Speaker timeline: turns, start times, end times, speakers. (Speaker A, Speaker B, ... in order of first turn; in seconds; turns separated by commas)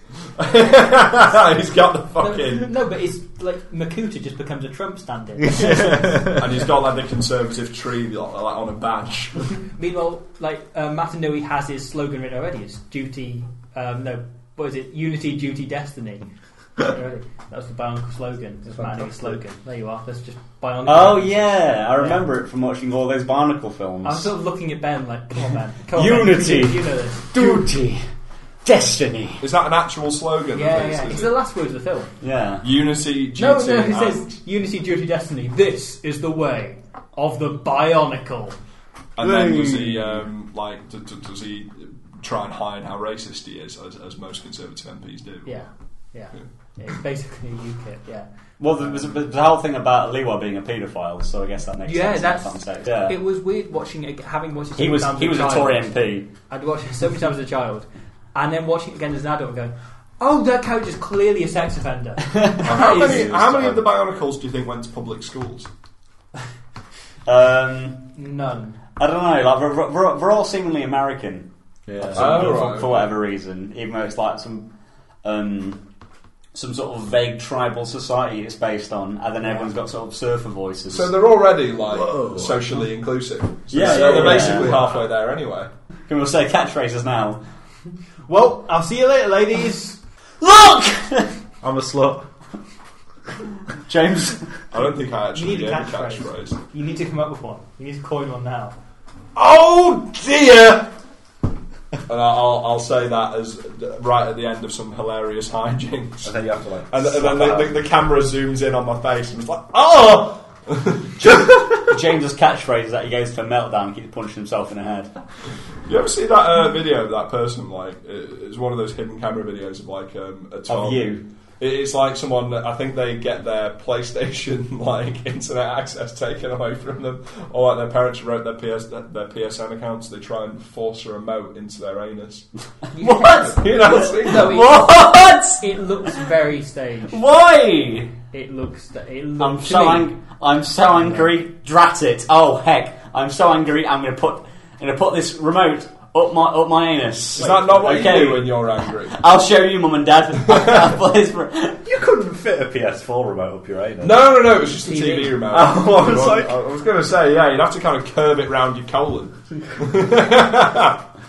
Speaker A: 0.4-2.7, Speaker B: 2.2-6.3, Speaker C: 5.4-6.5, Speaker A: 6.3-9.5, Speaker B: 9.7-21.5, Speaker C: 18.7-19.4, Speaker D: 20.9-24.3, Speaker B: 24.0-27.7, Speaker D: 25.9-28.0, Speaker D: 28.6-29.4, Speaker A: 29.4-31.3, Speaker B: 30.5-32.1, Speaker D: 32.2-32.6, Speaker A: 32.6-34.3, Speaker B: 33.4-38.6, Speaker A: 39.2-45.5, Speaker C: 39.2-40.1, Speaker B: 45.5-48.3, Speaker D: 48.6-53.2, Speaker B: 51.9-55.9, Speaker D: 54.8-56.3, Speaker B: 56.5-63.3, Speaker D: 62.3-62.8, Speaker A: 62.6-65.7, Speaker C: 62.6-63.8, Speaker D: 67.3-68.1, Speaker B: 68.2-68.8, Speaker D: 69.0-71.5, Speaker C: 71.9-72.5, Speaker D: 72.1-74.7, Speaker A: 72.2-73.1, Speaker D: 75.2-75.8, Speaker D: 76.5-81.1, Speaker B: 79.4-79.7, Speaker A: 80.9-85.7, Speaker C: 81.9-82.6, Speaker D: 83.7-84.8, Speaker C: 83.8-84.8, Speaker D: 86.1-87.4, Speaker B: 88.3-90.0, Speaker D: 90.4-91.3, Speaker C: 91.6-92.2, Speaker D: 93.8-94.5, Speaker A: 94.7-96.6, Speaker B: 95.3-98.8, Speaker A: 99.4-100.9, Speaker A: 102.1-106.3, Speaker C: 106.2-107.8, Speaker A: 106.9-111.5, Speaker D: 111.2-115.1, Speaker A: 115.9-132.5, Speaker D: 120.7-121.2, Speaker B: 132.9-137.2, Speaker D: 133.0-135.6, Speaker A: 133.4-134.6, Speaker D: 137.1-138.2, Speaker B: 138.3-140.1, Speaker D: 139.4-151.8, Speaker A: 147.4-149.2, Speaker C: 151.9-154.2, Speaker A: 154.0-161.0, Speaker B: 154.8-155.4, Speaker C: 155.5-156.6